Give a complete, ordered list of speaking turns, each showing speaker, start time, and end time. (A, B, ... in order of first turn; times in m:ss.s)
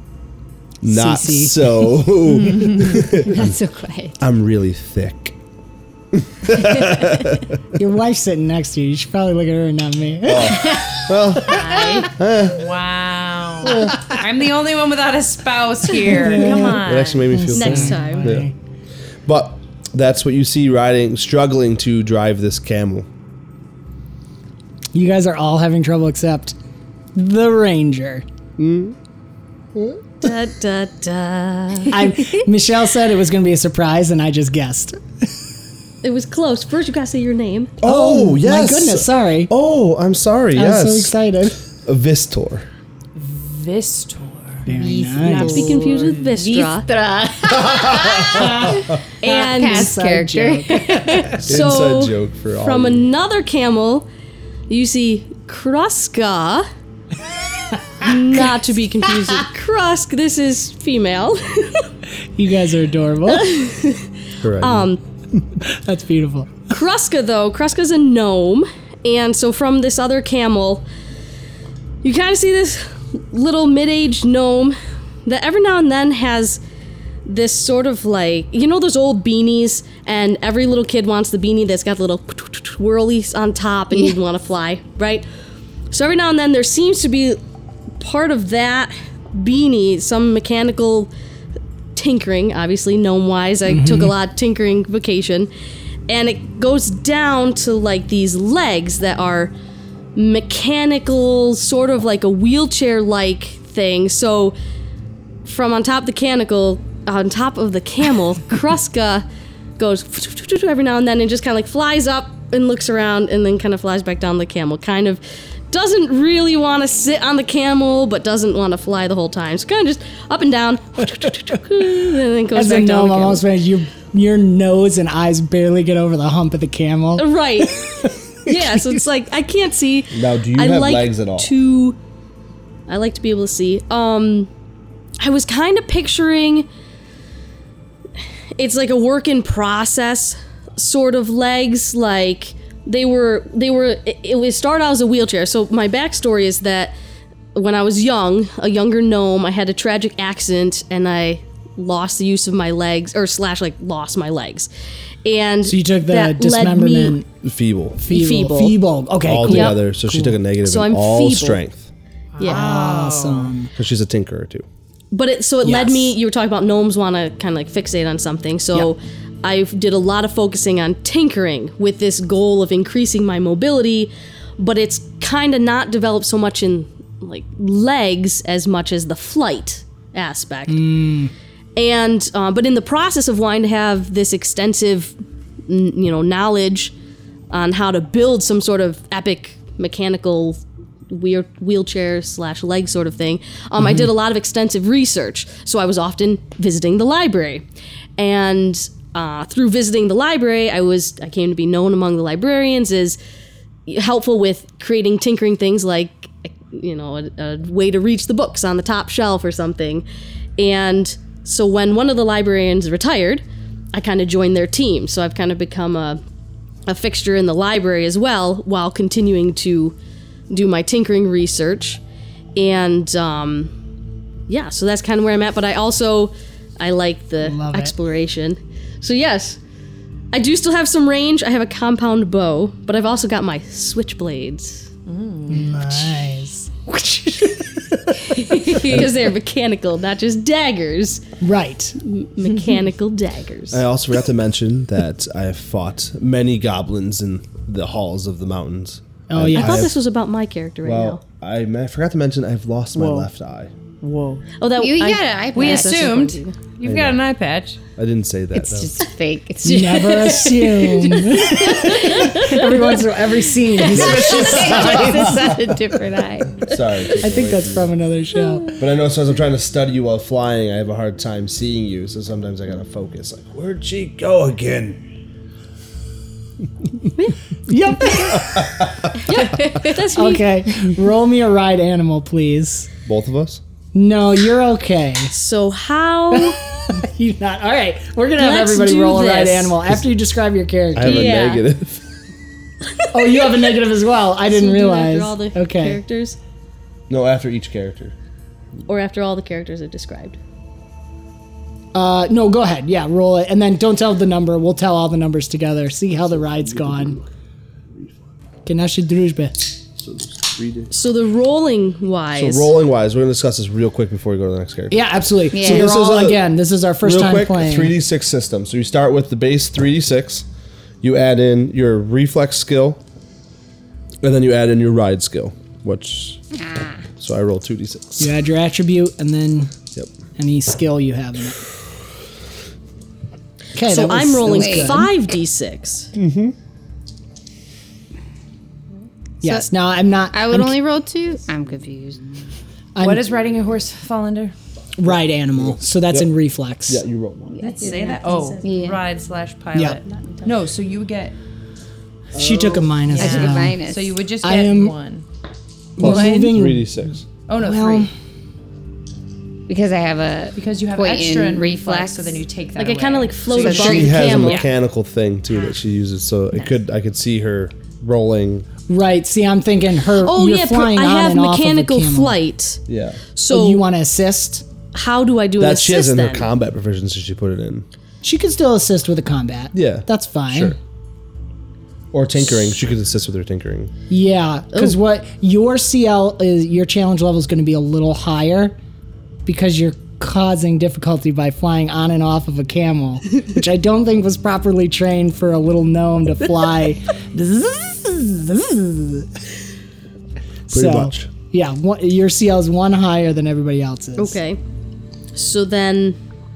0:00.8-0:03.6 A
0:00.8-0:02.0 B
0:03.2-0:04.2 C
0:04.2-0:05.4 A
0:06.1-0:07.5 A
0:07.8-0:12.0 B
0:10.2-0:12.7 A
0:11.4-0:17.2 D
0:16.2-0:16.8 B
0:16.6-0:18.5 A
0:17.3-0:18.5 B
0:17.5-0:18.3 E
0:19.2-0:23.1 A
0:24.9-0:26.6 B
0:27.2-0:28.2 B
0:28.6-0:29.0 A
0:29.7-0:30.0 A
0:30.2-0:32.1 E
0:31.9-0:35.0 B
0:36.0-0:37.7 E
0:37.8-0:41.1 A
0:37.8-0:39.5 B
0:40.5-0:41.6 B
0:41.8-0:42.7 A
0:43.1-0:44.7 D
0:44.6-0:45.8 B
0:44.8-0:51.4 C
0:45.2-0:46.9 E
0:47.5-0:48.7 A
0:48.3-0:51.4 B
0:49.2-0:49.9 E
0:51.2-0:54.1 E
0:51.4-0:53.1 A
0:54.7-0:56.7 E
0:58.0-0:58.5 B
0:58.0-1:01.9 E
1:02.4-1:03.5 B
1:03.3-1:05.0 E
1:04.4-1:04.9 A
1:05.6-1:06.6 B
1:06.7-1:10.8 E
1:12.0-1:16.6 E
1:17.2-1:25.2 E
1:25.9-1:27.4 E
1:28.0-1:31.1 E
1:31.9-1:35.5 E
1:33.6-1:34.1 B
1:36.1-1:39.5 E
1:40.2-1:44.6 E
1:45.4-1:49.2 E
1:49.8-2:03.4 E
2:02.5-2:07.3 B
2:07.2-2:12.0 E
2:07.9-2:08.8 B
2:10.1-2:11.5 A
2:12.9-2:14.5 E
2:15.2-2:16.6 E
2:18.6-2:26.9 E
2:27.5-2:34.7 E
2:35.2-2:37.2 E
2:35.6-2:37.2 B
2:37.4-2:38.0 A
2:38.0-2:40.4 B
2:38.1-2:38.8 E
2:39.2-2:41.9 A
2:39.4-2:39.8 E
2:40.6-2:41.6 E
2:42.4-2:43.5 D
2:42.4-2:42.7 E
2:42.4-2:43.7 B
2:43.7-2:44.6 A
2:45.1-3:00.9 E
2:45.6-2:46.2 B
3:00.7-3:01.3 B
3:01.8-3:05.1 E
3:05.7-3:06.9 E
3:07.5-3:17.6 E
3:18.2-3:23.2 E
3:23.9-3:30.0 E
3:30.6-3:36.2 E
3:36.9-3:40.0 E
3:40.5-3:42.0 E
3:42.6-3:43.7 E
3:44.5-3:49.6 E
3:47.4-3:47.9 B
3:50.3-3:54.9 E
3:55.1-3:56.1 D
3:55.5-3:58.8 B
3:58.3-4:01.2 E
3:58.8-3:59.1 A
4:01.4-4:02.0 B
4:02.0-4:03.8 E
4:03.7-4:09.9 A
4:09.3-4:09.9 B
4:09.5-4:11.2 E
4:10.8-4:13.7 A
4:12.9-4:13.3 D
4:14.0-4:14.5 D
4:14.6-4:16.6 E
4:14.8-4:16.4 C
4:15.5-4:17.8 D
4:16.8-4:17.2 A
4:18.0-4:18.9 A
4:18.5-4:20.5 C
4:19.6-4:25.5 B
4:19.7-4:22.9 E
4:21.6-4:22.4 C
4:23.9-4:26.7 C
4:24.0-4:25.7 A
4:26.6-4:27.9 A
4:27.2-4:28.7 B
4:28.8-4:35.0 A
4:37.7-4:38.7 B
4:38.4-4:39.1 A
4:39.2-4:40.6 E
4:40.1-4:42.9 B
4:43.0-4:43.6 A
4:43.9-4:45.3 B
4:45.3-4:46.6 E
4:46.3-4:51.3 B
4:48.4-4:49.8 E
4:50.9-4:52.0 A
4:51.0-4:51.6 E
4:52.9-4:53.7 E
4:53.1-4:56.0 B
4:54.5-4:56.4 E
4:57.1-4:58.1 A
4:58.9-5:00.4 E
5:01.9-5:07.2 B
5:06.8-5:07.2 A
5:08.6-5:09.8 B
5:10.0-5:10.9 A
5:10.9-5:12.7 E
5:12.3-5:16.4 A
5:14.9-5:17.9 B
5:15.5-5:15.9 C
5:17.0-5:20.4 A
5:21.0-5:23.0 A
5:24.2-5:26.4 A
5:27.2-5:28.3 A
5:28.2-5:29.7 B
5:30.4-5:31.6 B
5:33.7-5:35.1 B
5:33.8-5:36.1 E
5:34.4-5:35.0 C
5:36.1-5:36.5 A
5:39.4-5:40.8 B
5:40.3-5:42.2 C
5:43.0-5:43.2 B
5:43.0-5:44.5 D
5:45.0-5:47.0 B
5:45.5-5:46.3 A
5:46.9-5:47.6 A
5:47.6-5:51.3 D
5:47.6-5:49.0 C
5:47.8-5:48.9 E
5:49.7-5:50.0 B
5:50.0-5:50.5 E
5:52.3-5:53.8 B
5:52.4-5:52.9 A
5:53.1-5:55.2 D
5:53.2-5:54.1 C
5:54.4-5:55.0 B
5:56.0-5:57.3 A
5:56.0-5:57.0 B
5:56.0-5:56.5 D
5:57.5-5:58.1 D
5:57.5-5:58.1 B
5:59.7-6:02.4 C
6:00.6-6:04.6 D
6:02.8-6:04.7 E
6:03.6-6:04.5 C
6:03.6-6:08.7 A
6:08.9-6:12.4 B
6:10.2-6:12.8 E
6:12.9-6:13.2 A
6:13.3-6:13.8 E
6:13.5-6:14.6 B
6:14.9-6:16.5 E
6:15.6-6:17.8 A
6:18.2-6:20.8 B
6:19.7-6:20.8 A
6:22.1-6:23.9 A
6:24.1-6:28.8 B
6:29.4-6:39.3 B
6:40.7-6:44.4 B
6:40.7-6:41.3 A
6:44.2-6:44.6 E
6:45.3-6:46.2 E